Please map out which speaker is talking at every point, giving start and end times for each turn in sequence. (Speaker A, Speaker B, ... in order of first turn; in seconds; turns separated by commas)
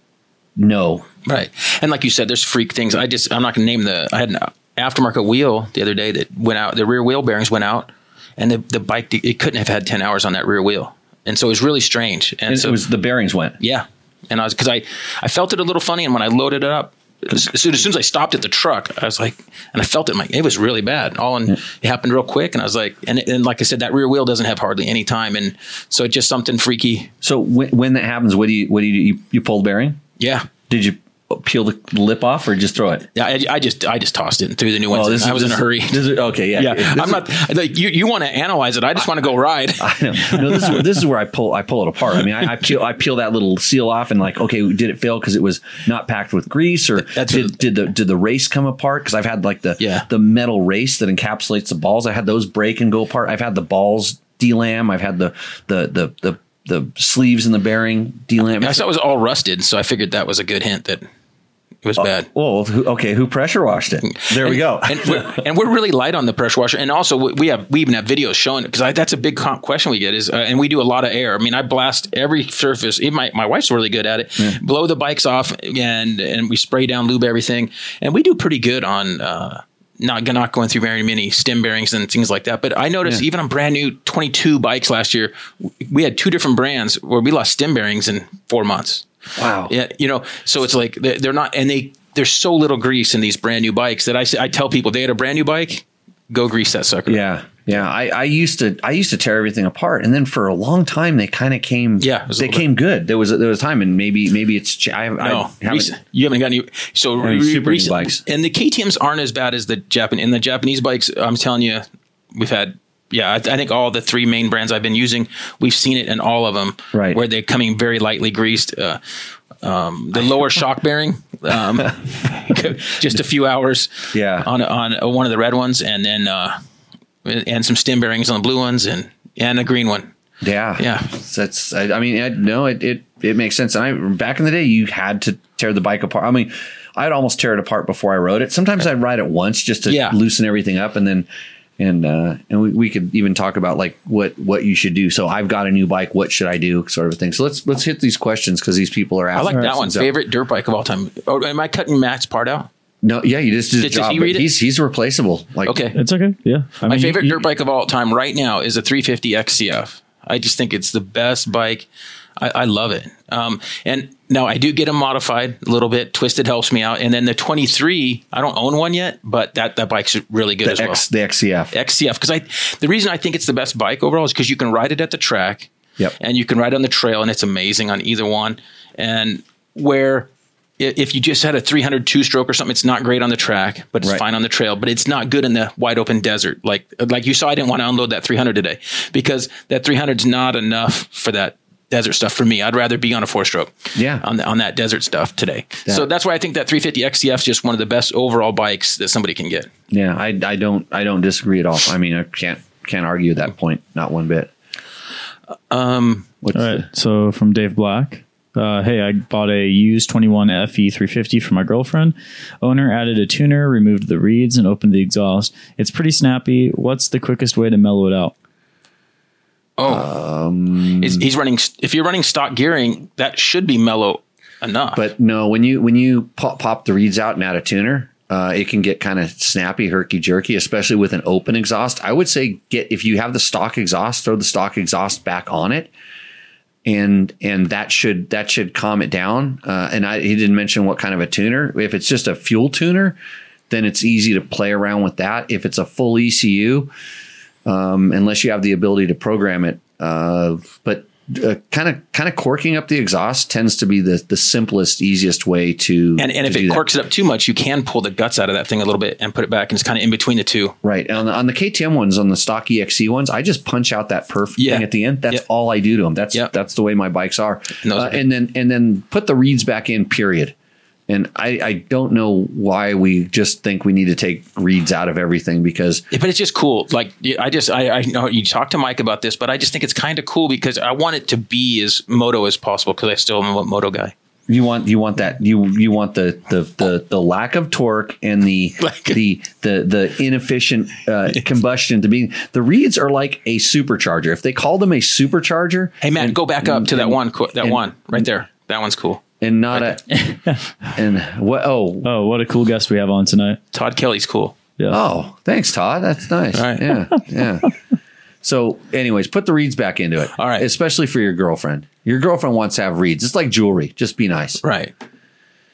Speaker A: 0.6-1.1, Speaker B: 1.3-12.8, Speaker A: 12.5-13.6, Speaker B: 13.6-27.1, Speaker A: 27.2-30.0, Speaker B: 30.2-30.5, Speaker A: 30.7-33.1, Speaker B: 33.1-36.0, Speaker A: 34.9-37.3, Speaker B: 36.6-40.8, Speaker A: 39.8-58.8, Speaker B: 47.1-47.5, Speaker B: 49.8-50.1, Speaker B: 58.6-61.0, Speaker B: 61.8-62.3, Speaker A: 62.0-65.4, Speaker B: 64.1-89.0, Speaker A: 89.4-89.7, Speaker B: 89.7-97.2, Speaker A: 97.1-105.9, Speaker B: 102.0-102.7, Speaker B: 105.2-119.0, Speaker A: 107.2-108.2, Speaker A: 116.9-117.2, Speaker B: 119.6-126.6, Speaker A: 124.1-124.5, Speaker B: 127.2-130.1, Speaker A: 130.4-141.3, Speaker B: 130.8-131.1, Speaker B: 139.9-140.2, Speaker A: 141.8-150.1, Speaker B: 149.4-152.7, Speaker A: 153.0-155.8, Speaker B: 153.8-154.5, Speaker B: 155.7-156.0, Speaker C: 155.9-157.4, Speaker B: 156.8-171.0, Speaker A: 170.6-171.7, Speaker B: 171.7-175.7, Speaker B: 176.2-199.7, Speaker A: 193.9-194.2, Speaker A: 199.9-204.5, Speaker B: 205.7-206.3, Speaker A: 206.4-206.9, Speaker C: 206.5-218.3, Speaker B: 219.8-220.1, Speaker A: 219.9-221.2, Speaker B: 221.0-225.0, Speaker A: 224.9-235.9, Speaker A: 236.8-243.2, Speaker A: 243.7-246.9, Speaker A: 247.7-256.8, Speaker B: 256.2-260.8, Speaker A: 260.8-270.5, Speaker B: 264.6-265.4, Speaker B: 267.8-268.2, Speaker A: 271.1-276.1, Speaker B: 276.1-284.1, Speaker A: 284.5-298.3, Speaker B: 288.8-289.2, Speaker B: 296.0-300.0, Speaker A: 299.4-300.0, Speaker A: 300.9-302.1, Speaker C: 302.0-303.6, Speaker B: 303.7-304.6, Speaker A: 304.9-307.7, Speaker B: 306.5-307.1, Speaker A: 308.4-314.6, Speaker B: 310.4-310.6, Speaker B: 314.6-314.9